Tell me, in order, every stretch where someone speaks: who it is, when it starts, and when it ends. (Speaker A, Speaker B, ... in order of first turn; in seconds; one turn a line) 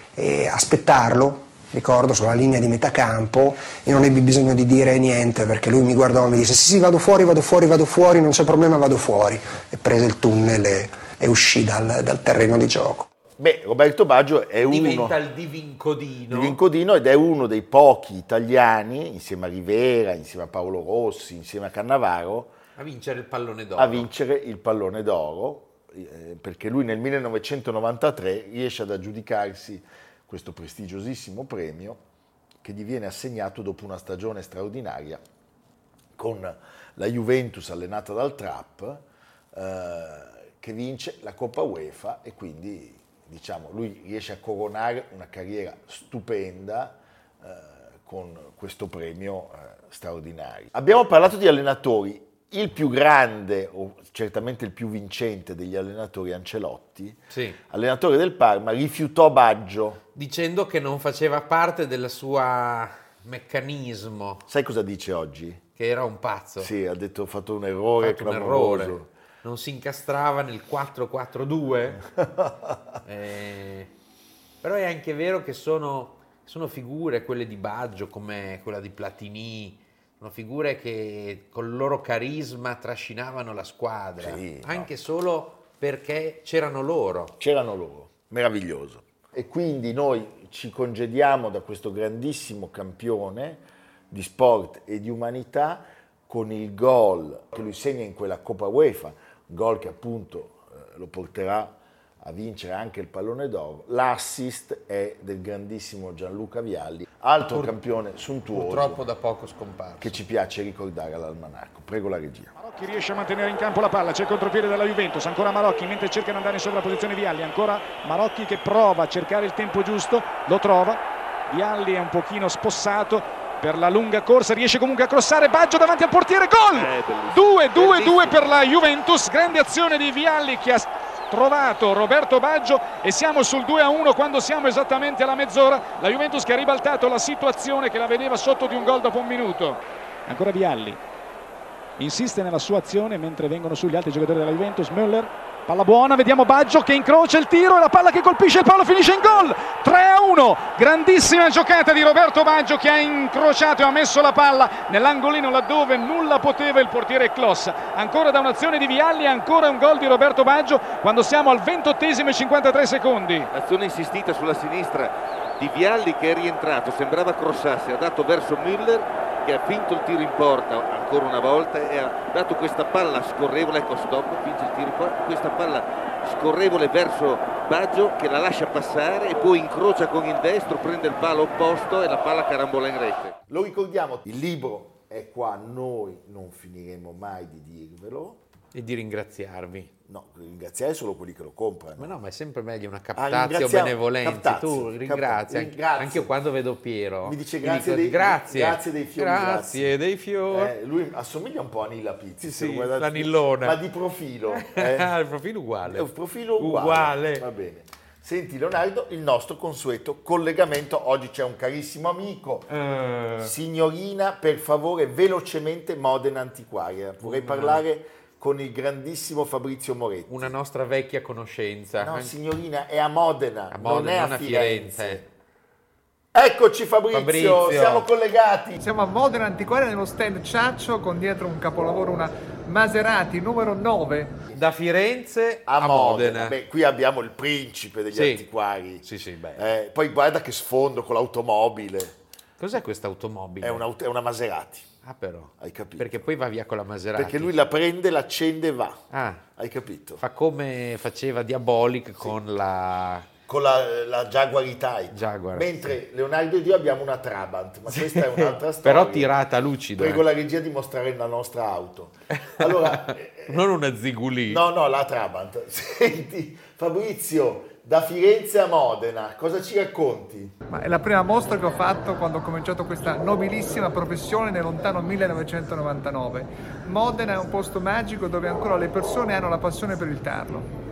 Speaker A: 0.1-13.1
Speaker B: 13.4-15.2
Speaker C: 14.7-16.6
Speaker B: 16.3-22.5
Speaker C: 22.8-24.1
Speaker B: 23.8-32.0
Speaker B: 32.6-35.2
Speaker B: 36.2-39.0
Speaker B: 39.5-60.0
Speaker C: 57.3-57.6
Speaker C: 60.1-64.4
Speaker B: 64.5-65.6
Speaker C: 65.8-66.7
Speaker B: 66.6-69.1
Speaker C: 68.0-72.0
Speaker C: 73.0-73.9
Speaker C: 74.6-87.3
Speaker B: 84.2-84.9
Speaker B: 87.4-109.0
Speaker C: 107.4-107.7
Speaker C: 108.5-110.2
Speaker B: 110.0-112.5
Speaker D: 112.5-141.0
Speaker E: 126.7-128.7
Speaker D: 142.0-163.5
Speaker E: 163.5-183.3
Speaker B: 183.5-188.4
Speaker C: 188.7-189.9
Speaker B: 190.1-192.1
Speaker C: 192.0-200.7
Speaker B: 193.2-196.3
Speaker B: 197.2-199.9
Speaker B: 200.5-205.1
Speaker C: 202.4-203.8
Speaker C: 204.5-207.4
Speaker B: 205.8-212.7
Speaker C: 212.7-213.5
Speaker B: 213.4-220.5
Speaker C: 217.2-217.8
Speaker C: 220.3-222.4
Speaker B: 222.0-225.3
Speaker C: 223.7-225.2
Speaker B: 226.3-228.8
Speaker C: 227.1-228.1
Speaker F: 228.8-234.3
Speaker C: 234.5-236.6
Speaker B: 235.7-239.0
Speaker C: 238.1-238.5
Speaker C: 239.0-239.7
Speaker B: 239.6-242.1
Speaker C: 242.6-243.8
Speaker B: 243.6-244.8
Speaker C: 245.0-247.5
Speaker B: 245.6-246.2
Speaker B: 247.1-249.0
Speaker C: 249.1-249.4
Speaker B: 249.6-250.2
Speaker C: 250.2-253.3
Speaker B: 253.5-259.3
Speaker C: 255.1-256.0
Speaker C: 257.9-260.2
Speaker B: 259.9-263.6
Speaker C: 262.4-264.6
Speaker B: 264.5-270.5
Speaker F: 270.7-280.7